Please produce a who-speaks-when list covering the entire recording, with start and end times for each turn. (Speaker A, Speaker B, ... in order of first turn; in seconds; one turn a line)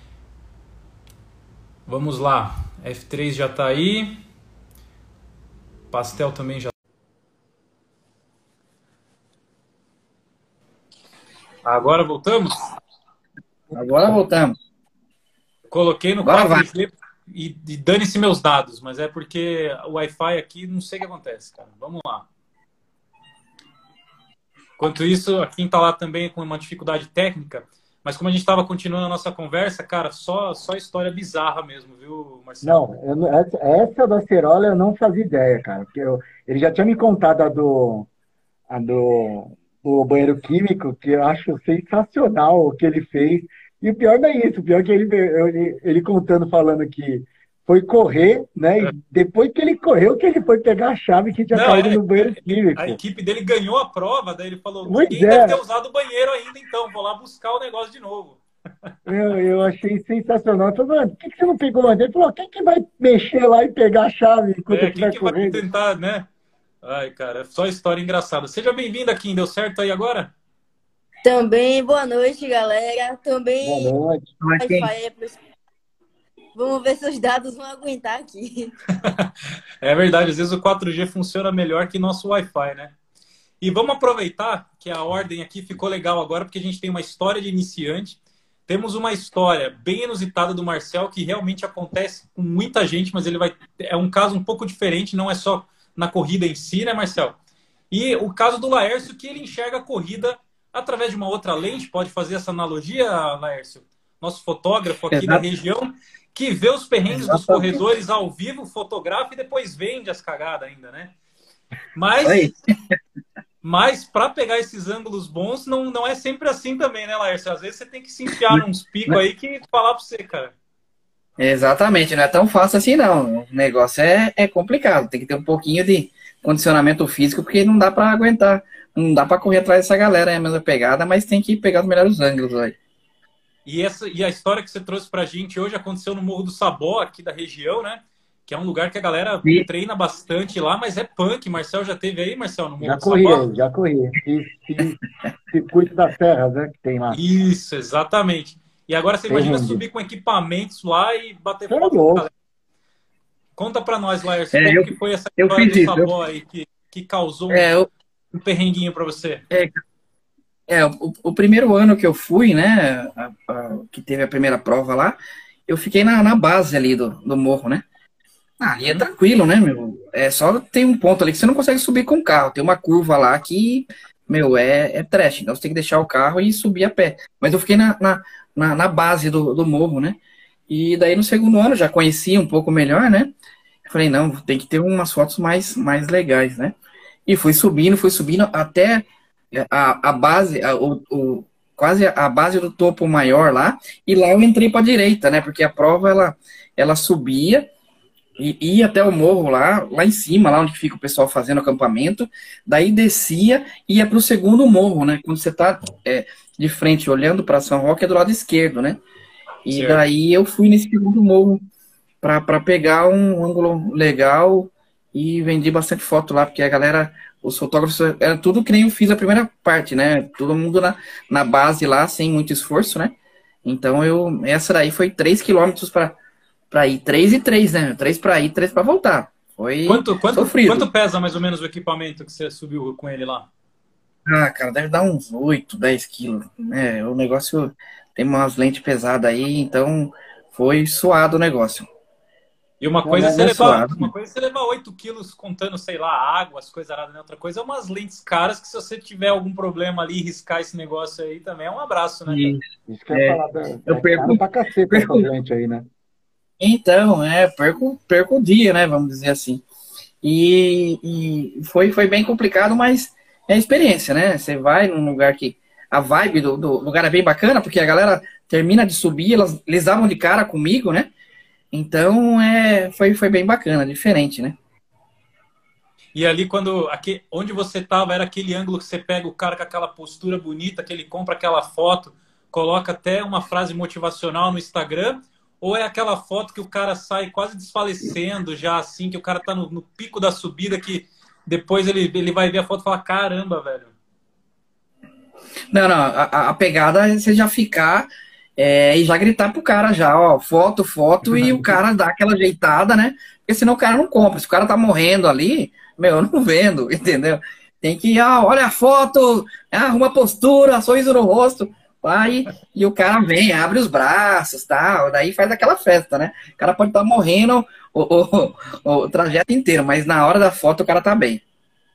Speaker A: 1.9-4.2
Speaker A: 5.9-6.7
Speaker A: 11.7-12.7
Speaker B: 13.7-14.6
Speaker A: 15.7-22.3
Speaker B: 16.2-16.7
Speaker A: 24.8-32.9
Speaker C: 32.6-38.1
Speaker C: 38.7-53.0
Speaker A: 51.5-58.4
Speaker C: 54.9-55.6
Speaker C: 59.1-65.6
Speaker A: 64.7-66.3
Speaker A: 66.8-70.3
Speaker D: 71.2-73.9
Speaker C: 73.6-74.3
Speaker B: 74.4-74.9
Speaker D: 74.6-75.4
Speaker D: 76.5-78.7
Speaker A: 79.0-82.9
Speaker A: 83.6-97.4
Speaker A: 97.9-111.1
Speaker B: 105.1-105.4
Speaker B: 107.1-107.8
Speaker A: 112.0-112.5
Speaker B: 112.2-113.0
Speaker A: 113.6-120.5
Speaker B: 118.5-119.2
Speaker B: 121.4-132.8
Speaker A: 133.7-143.5
Speaker C: 142.8-145.0
Speaker C: 145.5-147.2
Speaker A: 147.1-152.3
Speaker C: 149.3-149.8
Speaker C: 151.7-152.3
Speaker A: 153.6-157.7
Speaker B: 154.5-156.1
Speaker B: 157.5-157.9
Speaker A: 158.4-159.4
Speaker B: 159.5-159.8
Speaker B: 160.7-167.8
Speaker B: 168.6-183.3
Speaker B: 183.8-186.8
Speaker B: 187.3-197.7
Speaker B: 198.4-209.0
Speaker B: 209.7-211.6
Speaker A: 209.7-210.0
Speaker B: 212.2-226.2
Speaker B: 226.7-230.9
Speaker A: 229.9-233.5
Speaker B: 234.3-241.9
Speaker A: 242.8-252.6
Speaker B: 243.1-244.1
Speaker B: 252.3-252.6
Speaker C: 252.9-255.9
Speaker B: 253.1-255.3
Speaker B: 256.6-259.6
Speaker B: 260.2-271.1
Speaker B: 271.7-274.6
Speaker A: 276.1-293.9
Speaker B: 295.7-321.4